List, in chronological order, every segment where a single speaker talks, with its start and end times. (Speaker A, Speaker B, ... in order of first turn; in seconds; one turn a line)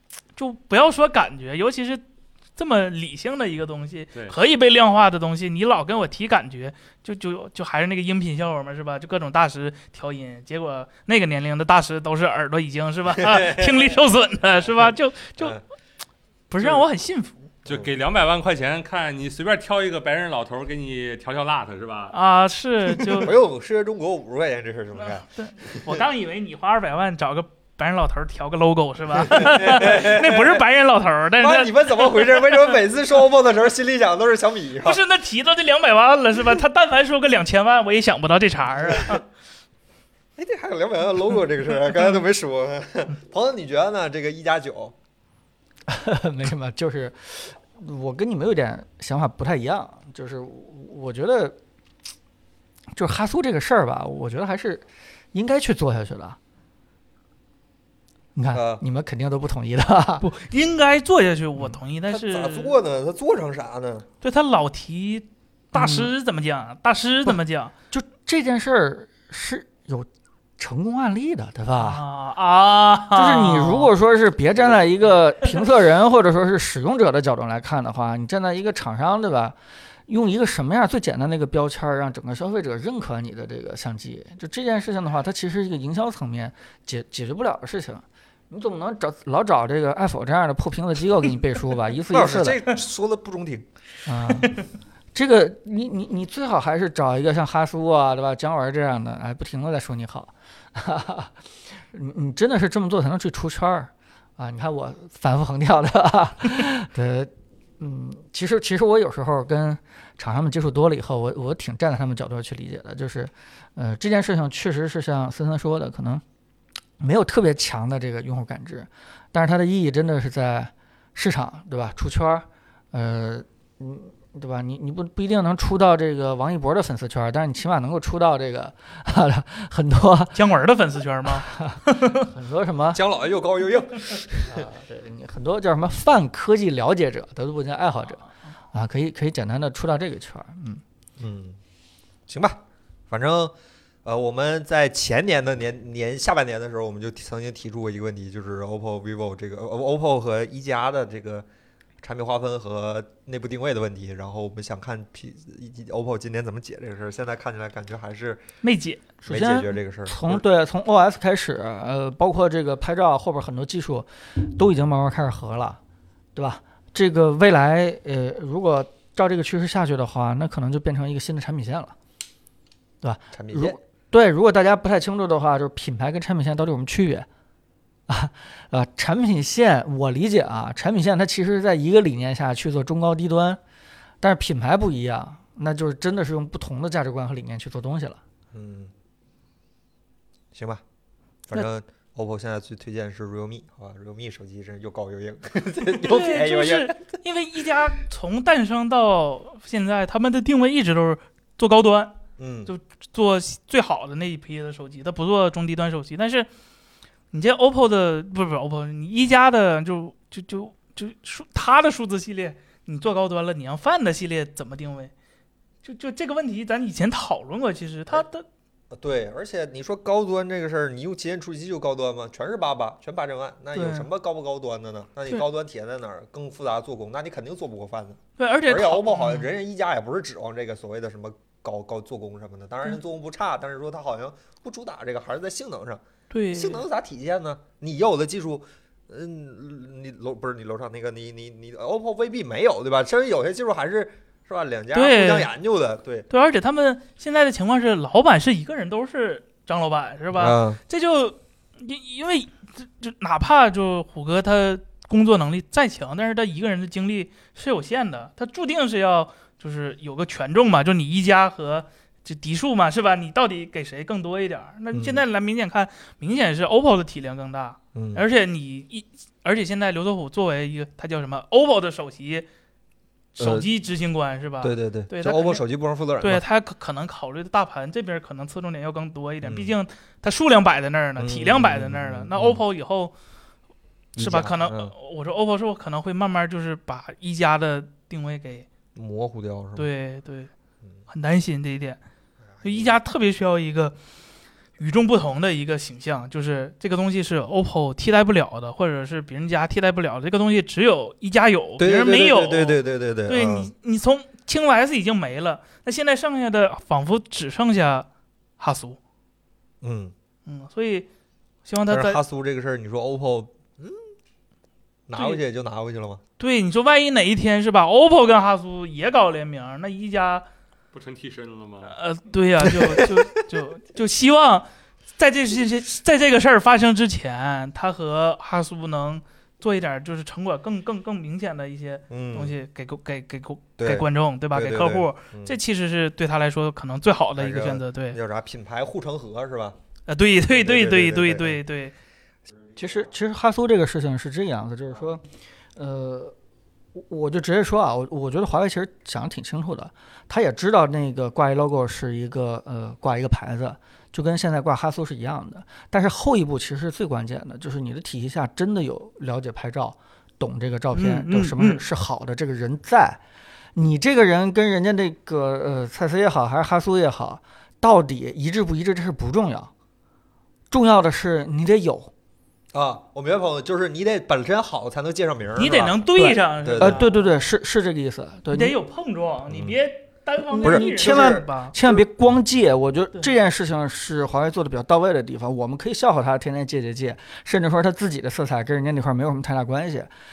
Speaker A: 0.4-2.0
Speaker A: 2.6-15.6
Speaker B: 13.2-13.9
Speaker A: 16.5-17.5
Speaker C: 17.6-22.1
Speaker B: 17.7-17.9
Speaker A: 22.1-23.3
Speaker B: 23.2-25.9
Speaker A: 25.0-32.8
Speaker B: 29.2-30.6
Speaker B: 31.4-35.0
Speaker A: 34.8-39.2
Speaker B: 38.8-39.2
Speaker B: 40.4-44.9
Speaker D: 45.9-51.6
Speaker D: 53.0-56.4
Speaker D: 58.4-60.3
Speaker B: 58.5-58.8
Speaker A: 60.2-62.8
Speaker B: 62.1-64.1
Speaker A: 64.2-67.7
Speaker D: 65.7-66.1
Speaker D: 67.9-72.0
Speaker A: 71.8-73.9
Speaker D: 73.2-79.6
Speaker D: 80.1-92.7
Speaker B: 92.1-93.7
Speaker D: 94.1-94.6
Speaker D: 95.2-116.2
Speaker D: 117.0-130.4
Speaker A: 130.3-132.3
Speaker D: 131.3-133.0
Speaker B: 132.9-134.7
Speaker D: 134.4-138.2
Speaker D: 138.7-140.8
Speaker B: 141.2-141.6
Speaker B: 142.3-143.5
Speaker B: 144.1-151.5
Speaker B: 152.0-158.4
Speaker A: 158.6-159.0
Speaker D: 159.2-165.8
Speaker B: 159.3-160.4
Speaker D: 166.4-171.9
Speaker D: 173.0-177.3
Speaker B: 173.3-173.8
Speaker D: 178.1-183.6
Speaker D: 184.2-188.2
Speaker B: 188.5-188.9
Speaker B: 190.5-190.8
Speaker B: 191.5-197.0
Speaker A: 196.0-206.5
Speaker B: 202.4-202.7
Speaker A: 207.3-215.1
Speaker A: 215.8-218.5
Speaker B: 218.9-246.3
Speaker A: 223.7-224.1
Speaker A: 228.4-229.5
Speaker A: 236.3-236.8
Speaker A: 244.9-245.5
Speaker A: 246.3-272.5
Speaker B: 250.3-250.8
Speaker B: 264.9-265.2
Speaker B: 267.9-268.2
Speaker A: 273.4-275.6
Speaker B: 273.4-273.7
Speaker B: 274.6-276.4
Speaker A: 276.2-283.1
Speaker B: 279.4-279.7
Speaker B: 281.2-282.6
Speaker B: 284.2-284.9
Speaker A: 284.2-288.7
Speaker B: 288.9-289.9
Speaker A: 289.8-290.5
Speaker A: 291.1-292.0
Speaker B: 292.6-293.0
Speaker A: 292.6-294.0
Speaker A: 294.8-308.1
Speaker B: 301.8-303.7
Speaker A: 308.6-309.0
Speaker B: 309.8-310.1
Speaker A: 310.5-311.1
Speaker A: 311.7-312.2
Speaker B: 311.9-314.0
Speaker B: 315.1-316.2
Speaker A: 316.4-320.5
Speaker C: 320.9-321.9
Speaker A: 321.9-338.2
Speaker B: 322.8-323.2
Speaker B: 332.1-332.5
Speaker B: 333.8-335.6
Speaker B: 337.4-339.8
Speaker A: 340.1-341.9
Speaker B: 340.5-341.6
Speaker D: 342.8-345.2
Speaker D: 345.8-346.3
Speaker D: 346.9-363.2
Speaker A: 360.9-361.8
Speaker D: 363.8-369.7
Speaker D: 370.7-372.1
Speaker B: 372.7-376.0
Speaker A: 375.6-377.1
Speaker D: 376.2-378.8
Speaker B: 376.6-377.0
Speaker A: 378.5-381.8
Speaker B: 379.5-379.8
Speaker D: 380.5-390.1
Speaker B: 380.6-382.0